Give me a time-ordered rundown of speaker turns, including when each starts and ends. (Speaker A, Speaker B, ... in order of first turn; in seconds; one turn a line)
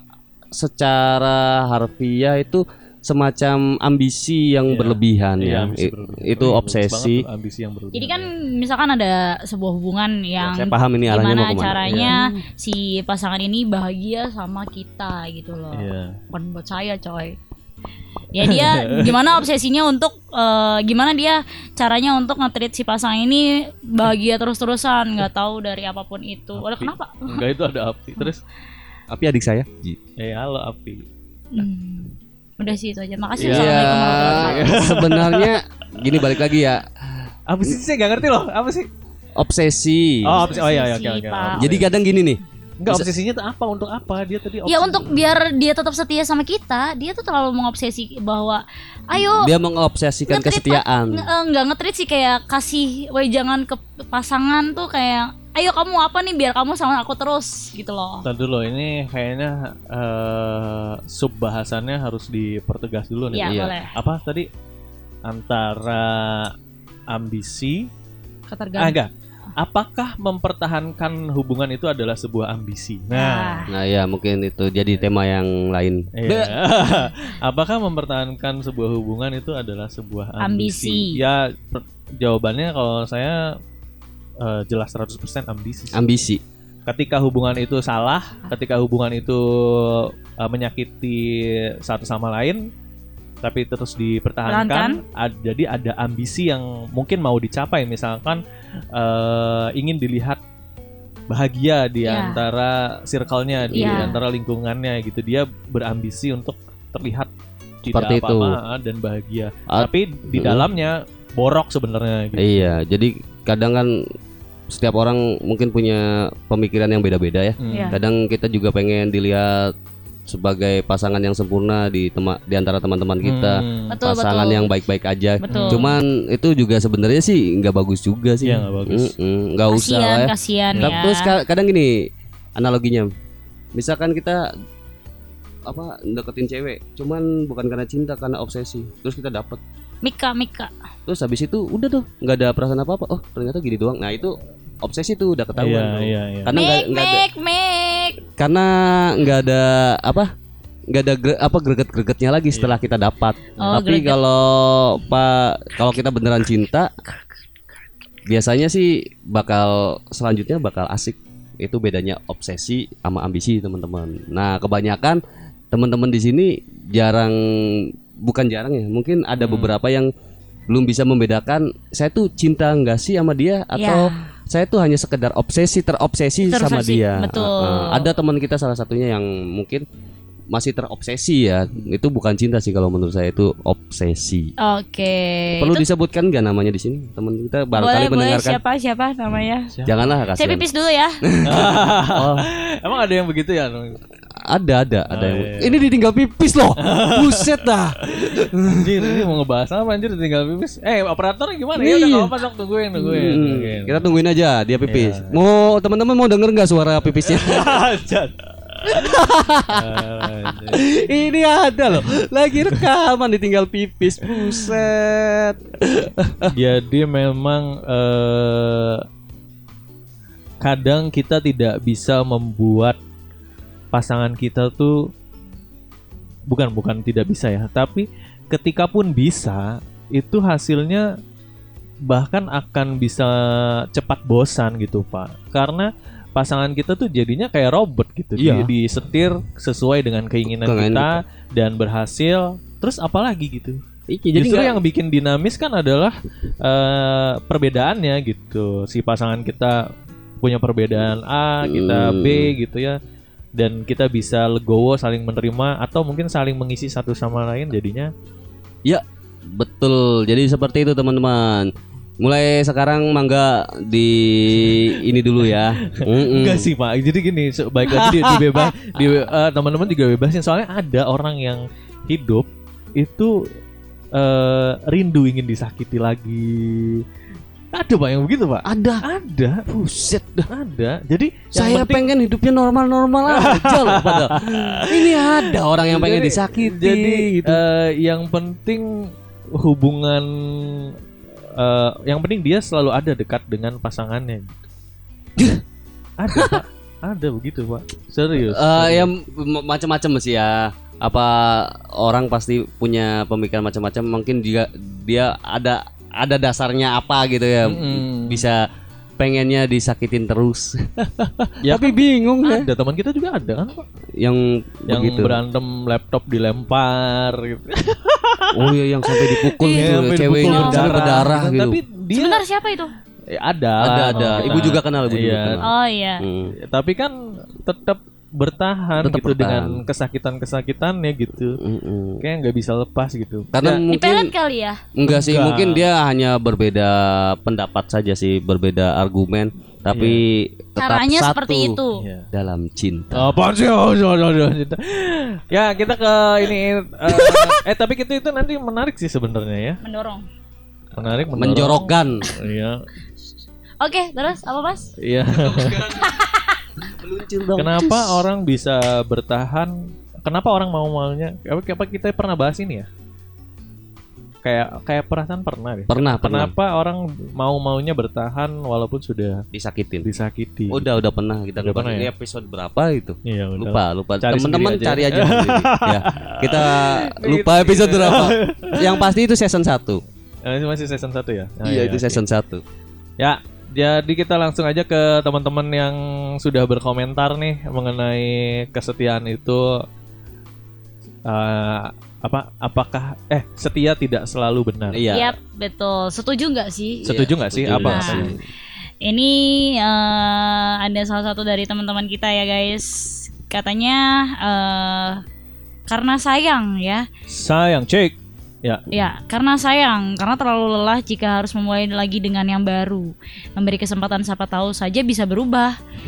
Speaker A: 0.5-7.2
Speaker B: 4.7-8.3
Speaker C: 7.9-17.4
Speaker A: 10.4-12.2
Speaker B: 11.9-12.2
Speaker B: 15.7-16.2
Speaker C: 18.3-27.4
Speaker B: 18.4-19.2
Speaker B: 27.3-28.4
Speaker A: 29.1-30.0
Speaker B: 30.2-31.0
Speaker C: 31.5-34.7
Speaker B: 33.4-35.5
Speaker A: 33.4-36.8
Speaker B: 37.5-38.9
Speaker A: 39.4-40.5
Speaker B: 40.2-41.9
Speaker C: 40.4-41.9
Speaker A: 41.6-43.1
Speaker B: 42.8-45.1
Speaker C: 44.6-49.5
Speaker A: 49.2-51.3
Speaker C: 50.3-58.2
Speaker B: 58.2-64.5
Speaker C: 63.3-63.9
Speaker A: 63.5-63.8
Speaker B: 65.3-66.5
Speaker B: 67.1-67.9
Speaker C: 68.5-69.0
Speaker B: 68.8-73.6
Speaker C: 73.1-73.7
Speaker A: 73.7-76.5
Speaker B: 76.2-83.4
Speaker C: 80.4-81.2
Speaker B: 84.4-86.0
Speaker A: 85.9-86.4
Speaker B: 86.9-92.6
Speaker B: 93.4-98.4
Speaker C: 94.5-95.0
Speaker B: 99.0-100.4
Speaker B: 101.3-107.3
Speaker C: 102.0-102.4
Speaker C: 103.7-104.2
Speaker A: 103.8-104.1
Speaker B: 107.8-112.7
Speaker A: 107.9-108.6
Speaker A: 109.7-110.7
Speaker A: 112.4-113.9
Speaker A: 114.7-119.7
Speaker B: 117.6-118.0
Speaker C: 117.7-118.0
Speaker A: 120.3-132.0
Speaker B: 123.2-124.0
Speaker C: 123.9-124.7
Speaker C: 125.4-125.9
Speaker B: 125.5-125.8
Speaker B: 128.4-129.1
Speaker C: 129.7-131.3
Speaker B: 130.8-131.0
Speaker A: 132.6-133.1
Speaker A: 133.8-134.5
Speaker A: 135.7-139.6
Speaker C: 140.0-140.7
Speaker A: 141.1-147.2
Speaker B: 145.6-146.5
Speaker C: 146.5-148.2
Speaker A: 148.4-150.3
Speaker A: 150.9-156.9
Speaker C: 153.6-154.2
Speaker A: 158.2-165.2
Speaker A: 165.7-170.1
Speaker B: 169.4-169.8
Speaker A: 170.7-179.8
Speaker C: 173.8-174.3
Speaker C: 176.4-178.1
Speaker A: 180.5-184.5
Speaker C: 184.6-185.8
Speaker A: 185.6-188.6
Speaker C: 187.7-189.7
Speaker A: 189.8-190.6
Speaker C: 190.3-191.2
Speaker A: 191.3-192.4
Speaker B: 191.4-194.0
Speaker A: 194.5-199.2
Speaker B: 195.1-195.8
Speaker B: 196.8-204.0
Speaker A: 201.8-202.3
Speaker A: 202.9-207.8
Speaker B: 204.9-205.3
Speaker B: 207.2-209.2
Speaker A: 208.9-216.5
Speaker B: 209.7-210.8
Speaker B: 214.3-214.8
Speaker B: 216.4-219.0
Speaker B: 220.6-223.0
Speaker B: 223.9-225.1
Speaker B: 226.5-231.1
Speaker B: 232.1-243.8
Speaker A: 238.4-238.7
Speaker A: 240.4-241.2
Speaker A: 244.1-244.8
Speaker B: 244.3-246.1
Speaker B: 246.6-249.8
Speaker B: 250.4-253.0
Speaker A: 251.6-252.5
Speaker B: 253.6-258.1
Speaker A: 258.8-266.7
Speaker B: 265.5-273.4
Speaker A: 267.8-268.7
Speaker B: 274.1-277.0
Speaker B: 277.7-279.6
Speaker A: 278.6-279.0
Speaker A: 279.7-280.5
Speaker B: 280.5-282.1
Speaker A: 281.5-287.6
Speaker B: 283.3-288.9
Speaker B: 289.5-290.9
Speaker B: 291.6-294.5
Speaker B: 296.2-299.1
Speaker A: 296.3-296.6
Speaker A: 298.4-308.6
Speaker B: 307.6-308.4
Speaker A: 309.2-310.9
Speaker A: 311.6-312.7
Speaker B: 311.6-313.8
Speaker A: 314.2-315.4
Speaker B: 314.9-322.4
Speaker A: 318.5-321.8
Speaker C: 319.7-321.2
Speaker C: 322.1-322.9
Speaker B: 323.4-325.6
Speaker A: 323.8-325.7
Speaker C: 324.1-324.8
Speaker C: 325.6-326.2
Speaker A: 326.2-326.5
Speaker B: 326.6-331.6
Speaker A: 329.0-329.8
Speaker A: 331.6-332.2
Speaker B: 332.2-333.8
Speaker A: 333.5-334.3
Speaker C: 333.9-334.8
Speaker A: 334.9-341.8
Speaker B: 335.0-335.8
Speaker B: 339.9-340.2
Speaker C: 340.8-342.0
Speaker B: 342.0-342.3
Speaker A: 342.3-343.3
Speaker B: 343.1-349.8
Speaker A: 347.1-347.6
Speaker C: 349.8-350.2
Speaker B: 350.9-352.8
Speaker A: 351.3-352.2
Speaker C: 353.8-354.9
Speaker B: 355.0-355.8
Speaker A: 355.3-356.1
Speaker C: 355.9-356.6
Speaker A: 357.0-358.2
Speaker B: 357.6-359.7
Speaker B: 360.2-362.9
Speaker B: 364.4-369.4
Speaker A: 365.9-366.5
Speaker A: 369.5-370.1
Speaker B: 370.0-370.8
Speaker A: 370.7-380.0
Speaker B: 371.6-372.1
Speaker B: 373.2-379.1
Speaker B: 380.4-382.2
Speaker A: 381.6-382.6
Speaker B: 383.2-389.8
Speaker B: 391.3-395.0
Speaker A: 394.9-395.3
Speaker C: 395.1-397.1
Speaker A: 397.0-398.4
Speaker B: 397.0-398.3
Speaker C: 397.8-398.3
Speaker C: 399.0-405.2
Speaker C: 405.9-407.1
Speaker B: 407.3-408.8
Speaker C: 408.9-415.8